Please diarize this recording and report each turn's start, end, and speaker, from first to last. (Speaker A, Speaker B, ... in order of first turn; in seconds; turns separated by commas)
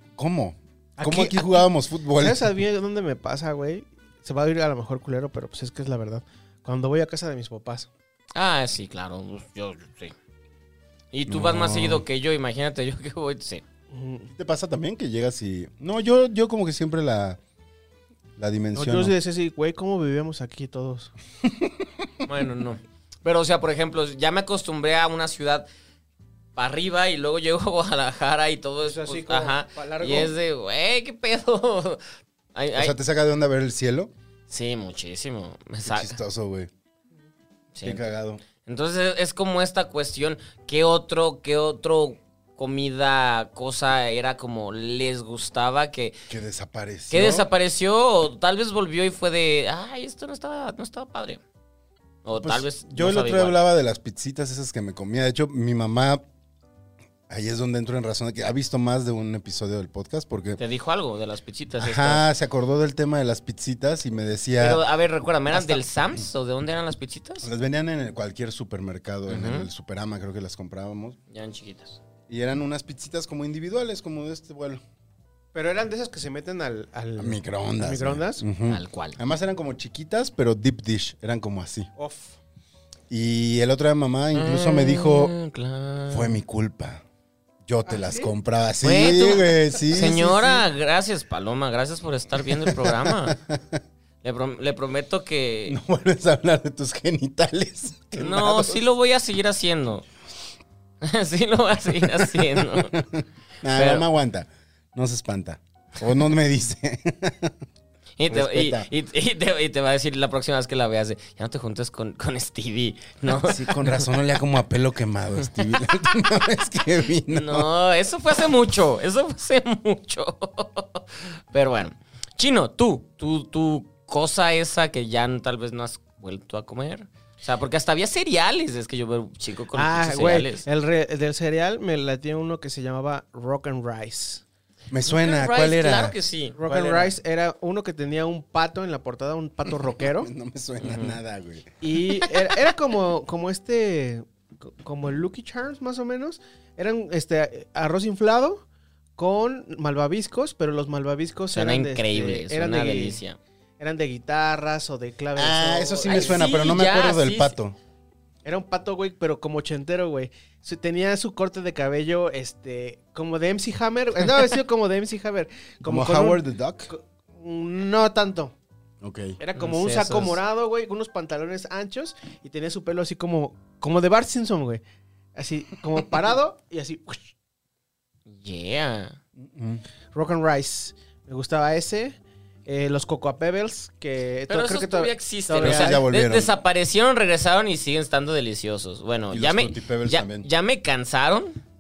Speaker A: 0.2-2.5, Speaker B: 1.0-1.7, Speaker B: 2.2-7.9, Speaker C: 8.3-10.2, Speaker C: 11.1-13.6, Speaker A: 11.3-12.0, Speaker B: 13.9-14.3, Speaker A: 14.3-17.4, Speaker A: 18.4-19.1, Speaker B: 18.8-21.1, Speaker A: 21.4-22.1, Speaker C: 22.2-25.7, Speaker C: 26.6-32.0, Speaker B: 28.8-30.3, Speaker C: 32.5-32.9, Speaker A: 32.8-34.1, Speaker C: 34.5-36.2, Speaker A: 35.9-36.7, Speaker C: 37.7-38.0, Speaker A: 37.8-38.4, Speaker C: 38.6-46.1, Speaker A: 46.3-47.5, Speaker C: 47.1-51.4, Speaker C: 52.2-53.6, Speaker A: 52.4-56.2, Speaker A: 57.3-60.6, Speaker C: 60.6-62.2, Speaker A: 61.8-64.8, Speaker C: 64.6-67.5, Speaker A: 65.5-66.2, Speaker A: 67.4-71.2, Speaker C: 69.3-69.7, Speaker C: 71.3-72.0, Speaker A: 72.3-74.8, Speaker B: 75.5-78.4, Speaker A: 77.2-81.9, Speaker C: 78.7-79.2, Speaker B: 82.0-82.4, Speaker A: 83.1-85.3, Speaker C: 84.3-86.4, Speaker A: 86.1-87.0, Speaker A: 87.7-90.7, Speaker B: 87.9-88.3, Speaker C: 88.8-93.4, Speaker A: 92.5-93.8, Speaker C: 94.2-95.8, Speaker A: 95.7-98.9, Speaker C: 98.2-100.0, Speaker C: 101.0-102.9, Speaker A: 101.9-107.6, Speaker C: 103.7-104.0, Speaker C: 108.2-114.1, Speaker A: 108.3-108.9, Speaker A: 113.3-117.7, Speaker C: 117.3-130.7, Speaker B: 129.7-134.4, Speaker A: 134.9-136.2, Speaker C: 135.1-137.0, Speaker B: 136.6-140.3, Speaker A: 136.7-137.1, Speaker A: 140.0-141.7, Speaker C: 140.8-141.2, Speaker B: 141.8-148.6, Speaker B: 149.2-153.2, Speaker C: 151.5-153.4, Speaker B: 153.8-156.4, Speaker A: 155.4-157.8, Speaker C: 156.0-157.6, Speaker B: 158.4-168.5, Speaker A: 165.8-166.9, Speaker A: 169.0-169.4, Speaker B: 169.4-174.8, Speaker C: 169.6-170.4, Speaker B: 175.4-177.3, Speaker C: 178.3-179.2, Speaker A: 179.4-179.8, Speaker B: 180.1-186.0, Speaker C: 184.5-191.6, Speaker A: 185.6-186.5, Speaker A: 189.3-190.5